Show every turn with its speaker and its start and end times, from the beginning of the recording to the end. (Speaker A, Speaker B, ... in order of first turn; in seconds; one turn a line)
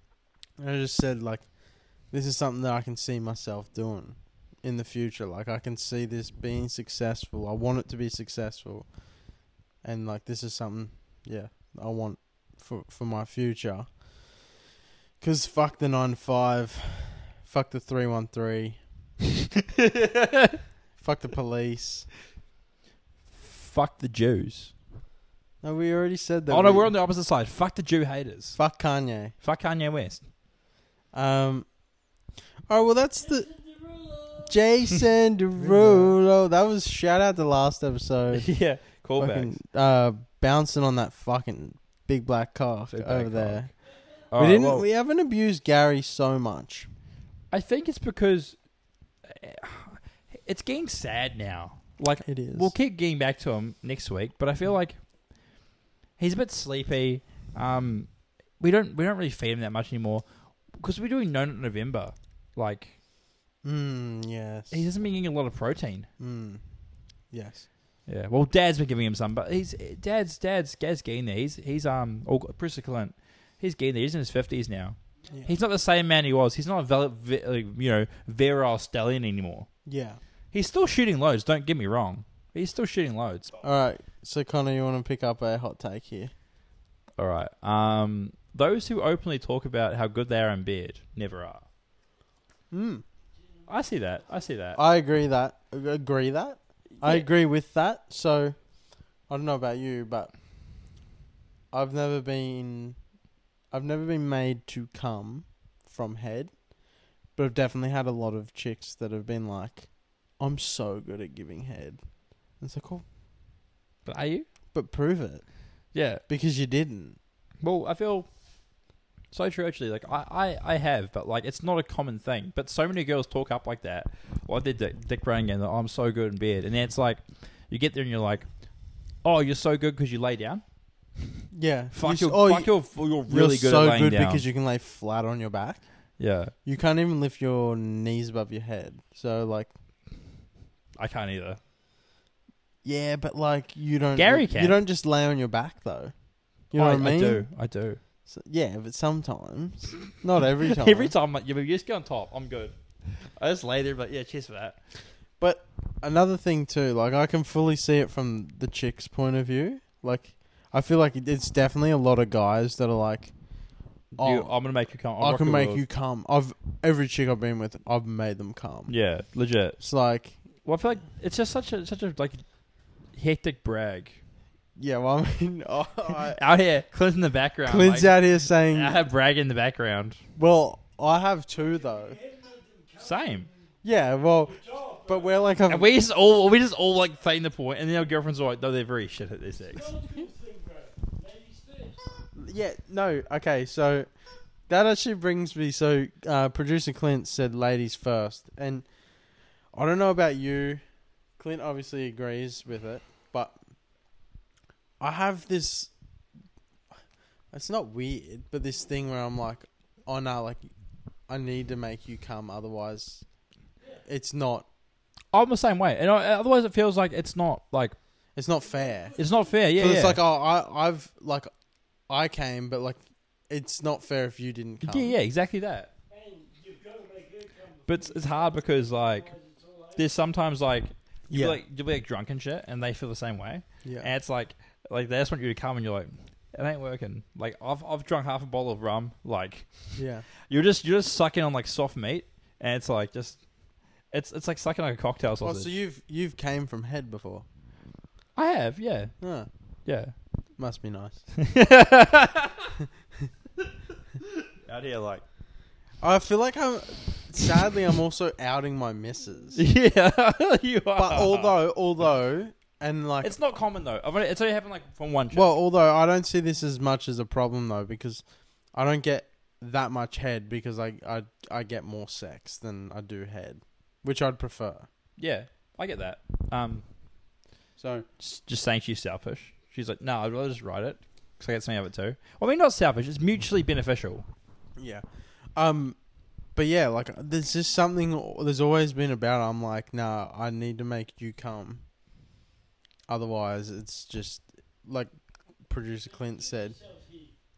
Speaker A: 0.6-1.5
Speaker A: 2.1-8.9
Speaker A: 9.8-14.0
Speaker A: 15.2-18.8
Speaker B: 19.7-20.6
Speaker A: 21.0-22.1
Speaker B: 23.3-24.7
Speaker A: 25.6-26.9
Speaker B: 26.5-28.6
Speaker A: 28.6-29.3
Speaker B: 29.4-30.2
Speaker A: 31.1-31.7
Speaker A: 32.7-33.5
Speaker C: 33.2-34.6
Speaker A: 34.5-38.5
Speaker B: 35.6-36.1
Speaker B: 38.3-39.5
Speaker A: 39.2-43.7
Speaker B: 42.9-43.7
Speaker C: 43.8-44.2
Speaker B: 44.3-44.9
Speaker A: 44.3-46.9
Speaker B: 47.5-48.5
Speaker B: 49.2-55.0
Speaker A: 52.2-52.7
Speaker B: 56.2-60.2
Speaker B: 60.8-62.9
Speaker A: 63.6-64.8
Speaker B: 64.7-66.1
Speaker A: 66.2-66.6
Speaker A: 67.3-67.7
Speaker B: 68.1-79.7
Speaker A: 79.8-80.2
Speaker B: 80.5-83.5
Speaker A: 83.6-86.3
Speaker B: 87.2-91.7
Speaker A: 92.7-93.0
Speaker B: 93.7-94.8
Speaker A: 94.7-98.5
Speaker B: 97.0-97.3
Speaker A: 99.3-100.3
Speaker A: 101.7-103.0
Speaker A: 103.7-106.5
Speaker A: 107.3-112.0
Speaker A: 112.6-113.0
Speaker B: 114.0-114.5
Speaker A: 114.7-115.5
Speaker B: 115.9-116.2
Speaker A: 116.3-117.2
Speaker B: 117.6-118.3
Speaker B: 119.3-128.5
Speaker B: 129.2-130.6
Speaker A: 131.5-135.8
Speaker B: 131.9-134.4
Speaker B: 136.2-136.5
Speaker A: 136.6-139.7
Speaker B: 141.0-141.6
Speaker A: 142.8-146.1
Speaker B: 144.1-144.8
Speaker A: 146.7-147.4
Speaker B: 146.7-148.0
Speaker A: 148.2-151.1
Speaker B: 150.7-154.8
Speaker A: 155.4-163.3
Speaker B: 164.1-165.8
Speaker A: 164.2-164.5
Speaker A: 165.2-168.9
Speaker B: 168.9-169.8
Speaker A: 169.8-170.4
Speaker B: 170.6-172.4
Speaker B: 173.1-174.2
Speaker A: 174.8-176.4
Speaker B: 176.3-180.2
Speaker A: 177.6-179.0
Speaker A: 180.4-182.2
Speaker C: 181.5-185.6
Speaker B: 183.0-183.5
Speaker A: 183.8-185.9
Speaker B: 185.7-189.9
Speaker C: 189.7-192.0
Speaker A: 192.3-194.1
Speaker A: 194.7-198.8
Speaker A: 199.7-200.8
Speaker A: 201.4-203.6
Speaker A: 205.0-205.9
Speaker A: 207.5-210.6
Speaker A: 211.3-213.2
Speaker A: 214.0-214.7
Speaker B: 215.3-217.9
Speaker A: 218.3-219.2
Speaker C: 218.6-219.6
Speaker B: 219.2-220.2
Speaker A: 219.8-221.5
Speaker A: 222.1-225.1
Speaker B: 224.8-225.9
Speaker C: 226.1-230.1
Speaker B: 227.9-229.3
Speaker B: 229.9-243.4
Speaker A: 231.3-231.6
Speaker A: 233.8-234.1
Speaker A: 239.9-240.2
Speaker B: 244.1-245.7
Speaker A: 245.4-247.4
Speaker B: 248.3-249.1
Speaker A: 249.2-249.5
Speaker B: 249.8-250.1
Speaker A: 250.6-251.2
Speaker B: 251.4-252.8
Speaker B: 254.2-255.2
Speaker A: 256.0-259.6
Speaker B: 259.5-261.5
Speaker A: 261.0-263.3
Speaker B: 263.2-265.5
Speaker A: 265.3-268.2
Speaker A: 268.7-274.9
Speaker B: 275.2-276.8
Speaker A: 277.8-278.1
Speaker B: 278.2-284.2
Speaker A: 284.8-285.0
Speaker A: 285.6-286.0
Speaker A: 286.6-291.8
Speaker A: 293.1-295.1
Speaker A: 295.6-296.7
Speaker C: 296.1-297.4